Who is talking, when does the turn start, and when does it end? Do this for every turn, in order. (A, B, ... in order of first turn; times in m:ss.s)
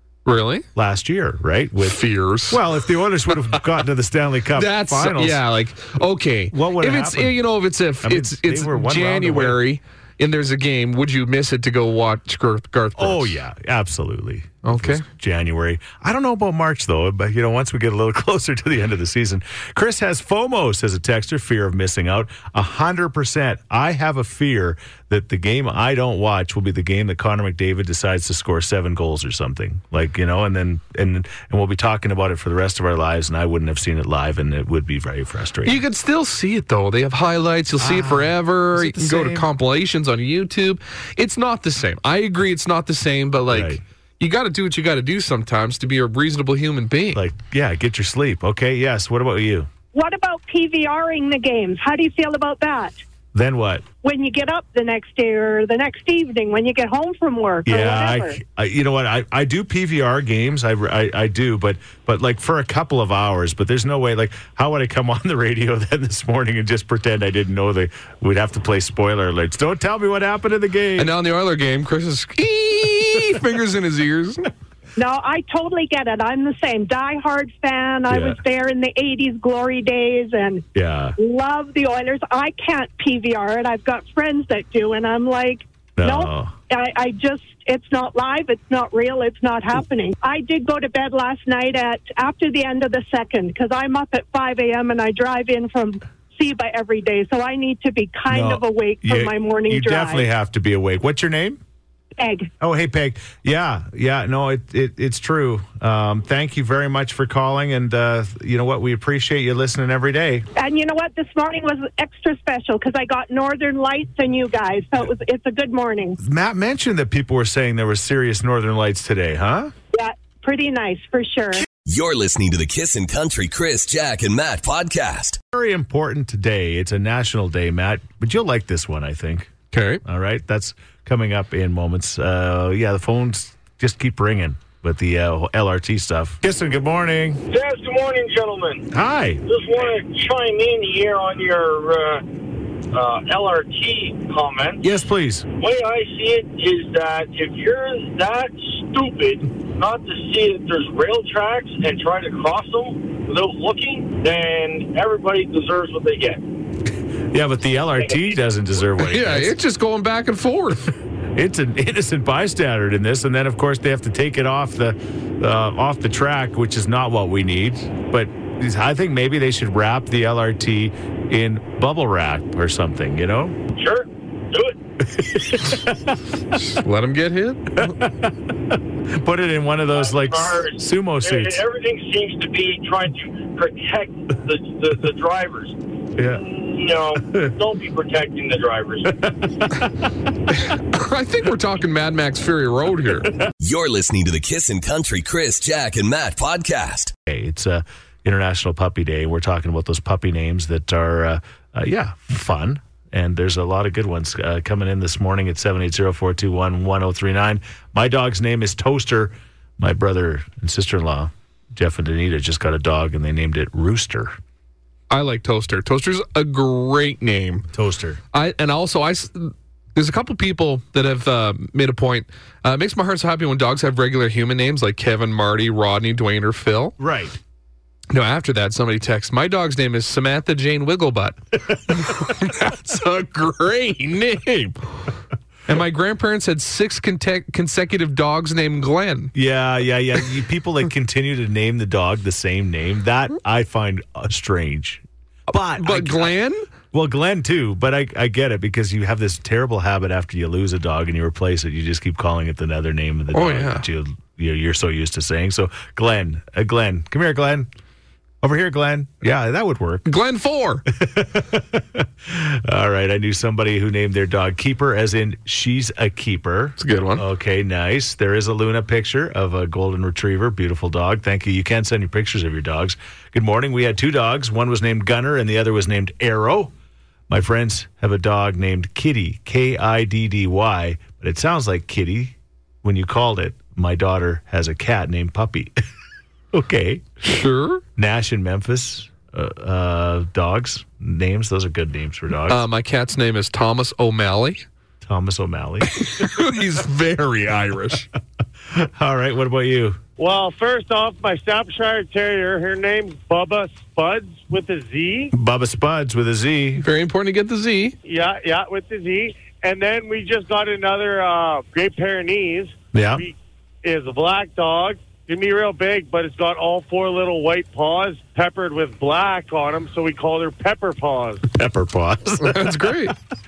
0:00.2-0:00.6 A
0:00.7-0:05.4 B
0:01.8-0:02.6 A
0:04.5-0:13.4 A
0:06.5-0:07.4 B
0:08.0-0:09.6 B
0:13.0-0:35.8 B
0:14.6-0:15.0 A
0:35.6-0:47.2 A
0:37.8-0:39.4 B
0:43.5-0:43.8 B
0:47.1-0:49.7 B
0:49.9-0:53.0 C
0:53.3-0:53.8 B
0:54.0-0:58.4 C
0:57.6-1:11.1 B
1:11.0-1:14.5 A
1:15.0-1:20.6 C
1:18.1-1:18.4 B
1:20.7-1:21.2 B
1:21.2-1:40.2 C
1:26.0-1:26.5 B
1:38.3-1:41.6 B
1:42.2-1:42.5 C
1:42.6-1:50.4 B
1:50.6-1:56.2 C
1:56.2-1:59.7 B
1:59.9-2:01.6 C
2:01.8-2:05.4 D
2:05.5-2:09.5 B
2:09.7-2:10.0 A
2:10.0-2:17.4 B
2:17.5-2:18.9 E
2:18.9-2:19.4 B
2:19.4-2:22.2 E
2:22.9-2:24.8 E
2:24.8-2:25.5 B
2:25.6-2:36.4 E
2:37.3-2:39.6 B
2:38.0-2:38.3 E
2:39.0-2:40.9 A
2:41.4-2:53.6 B
2:53.7-2:55.2 E
2:55.1-2:56.2 B
2:56.5-2:57.9 A
2:57.8-3:01.6 B
2:59.9-3:09.3 E
3:06.2-3:06.4 B
3:07.2-3:07.5 B
3:10.5-3:13.3 A
3:13.6-3:17.1 D
3:17.3-3:34.4 B
3:35.1-3:37.6 A
3:37.7-3:38.2 B
3:38.3-3:47.0 A
3:47.0-3:47.4 B
3:48.1-3:55.0 A
3:55.7-3:59.3 A
3:59.3-4:06.4 B
4:05.8-4:06.6 A
4:06.9-4:17.7 B
4:13.3-4:13.8 A
4:18.4-4:20.1 B
4:20.0-4:20.8 A
4:21.0-4:36.7 B
4:26.8-4:27.2 A
4:37.3-4:45.7 B
4:46.5-4:47.0 B
4:47.2-4:47.8 A
4:48.0-4:52.6 B
4:52.5-4:54.6 A
4:55.0-4:56.4 B
4:55.9-4:58.1 A
4:58.7-5:00.0 B
5:00.2-5:05.3 F
5:05.3-5:06.8 B
5:06.8-5:08.0 A
5:08.0-5:21.4 F
5:12.9-5:13.2 B
5:21.5-5:22.9 B
5:22.4-5:23.1 A